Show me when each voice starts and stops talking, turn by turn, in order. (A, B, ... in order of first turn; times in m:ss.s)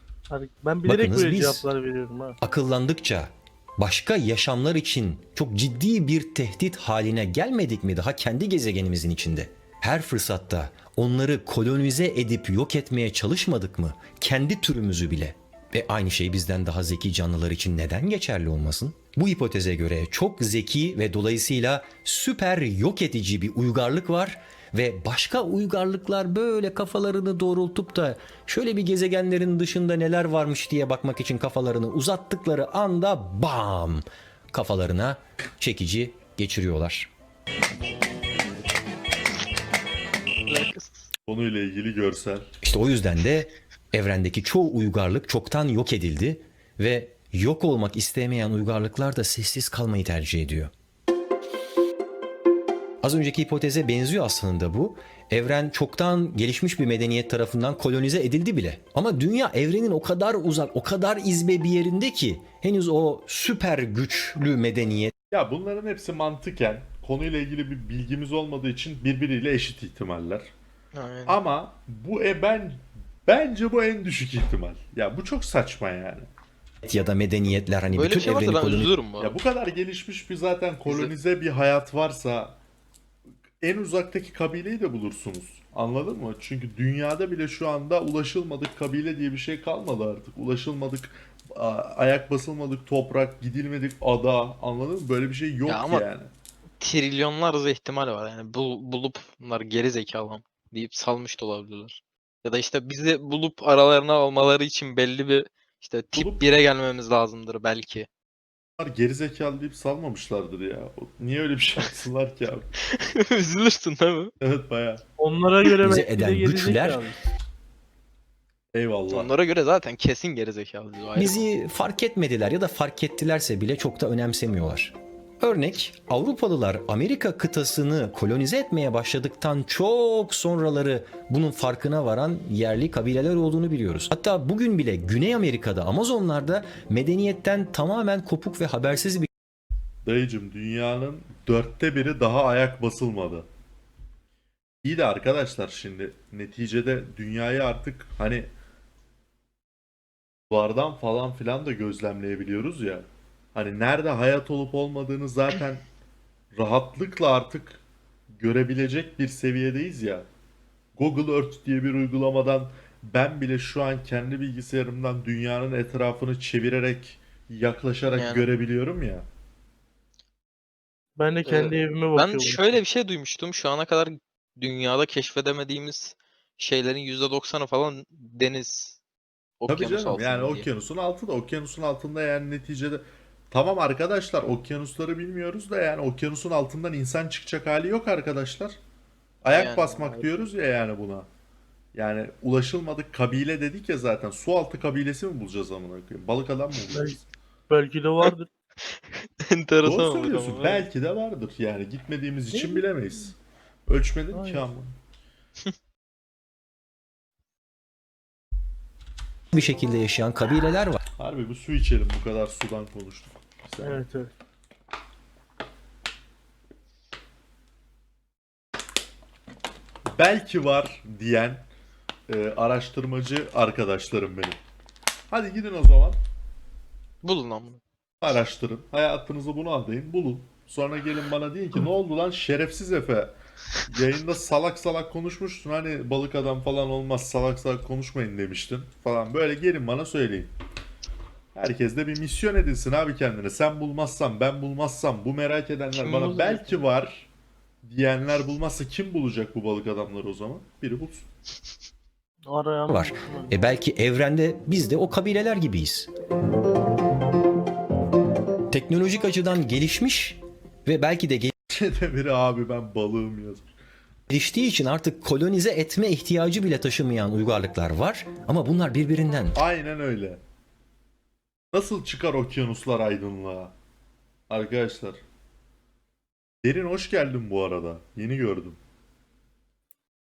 0:00.3-0:02.4 A
0:00.9-0:01.7 B
0:02.4-0:37.1 B
0:40.5-0:41.1 C
0:41.3-0:42.5 D
0:42.6-0:50.7 B
0:53.0-1:05.1 B
1:05.3-1:10.5 D
1:10.9-1:11.4 C
1:11.3-1:16.3 D
1:16.8-1:19.0 B
1:17.9-1:19.4 C
1:19.2-1:22.6 D
1:23.6-1:36.3 D
1:35.7-1:36.1 C
1:36.8-1:48.1 C
1:46.1-1:46.6 D
1:48.8-1:52.7 D
1:52.8-1:54.3 C
1:54.4-1:55.0 D
1:55.2-1:57.2 A
1:55.8-1:57.0 B
1:58.7-1:59.3 D
1:59.1-2:01.5 C
2:01.2-2:19.3 B
2:20.0-2:23.5 D
2:24.8-2:28.5 D
2:30.5-2:35.9 D
2:36.5-2:40.3 D
2:41.0-2:49.3 D
2:48.1-2:48.5 C
2:51.2-2:52.8 A
2:51.5-2:59.0 C
2:59.6-3:00.7 C
2:59.7-3:08.8 D
3:09.4-3:11.3 D
3:09.5-3:10.3 C
3:11.9-3:17.3 D
3:16.9-3:17.2 A
3:17.7-3:18.5 A
3:18.9-3:20.9 C
3:19.8-3:23.4 D
3:22.5-3:22.9 A
3:23.9-3:25.0 D
3:24.3-3:24.6 A
3:29.5-3:31.0 B
3:31.2-3:34.0 D
3:33.8-3:34.3 A
3:40.1-3:41.6 D
3:42.3-3:44.6 D
3:45.3-3:46.2 D
3:47.2-3:47.8 C
3:48.2-3:53.3 D
3:53.9-4:00.5 D
4:01.5-4:07.3 D
4:05.9-4:06.8 C
4:07.8-4:11.2 D
4:12.5-4:13.5 A
4:12.9-4:16.1 B
4:18.7-4:21.5 B
4:21.7-4:23.8 D
4:24.3-4:29.6 B
4:29.5-4:30.4 D
4:31.7-4:33.7 D
4:34.5-4:35.2 D
4:36.6-4:38.8 D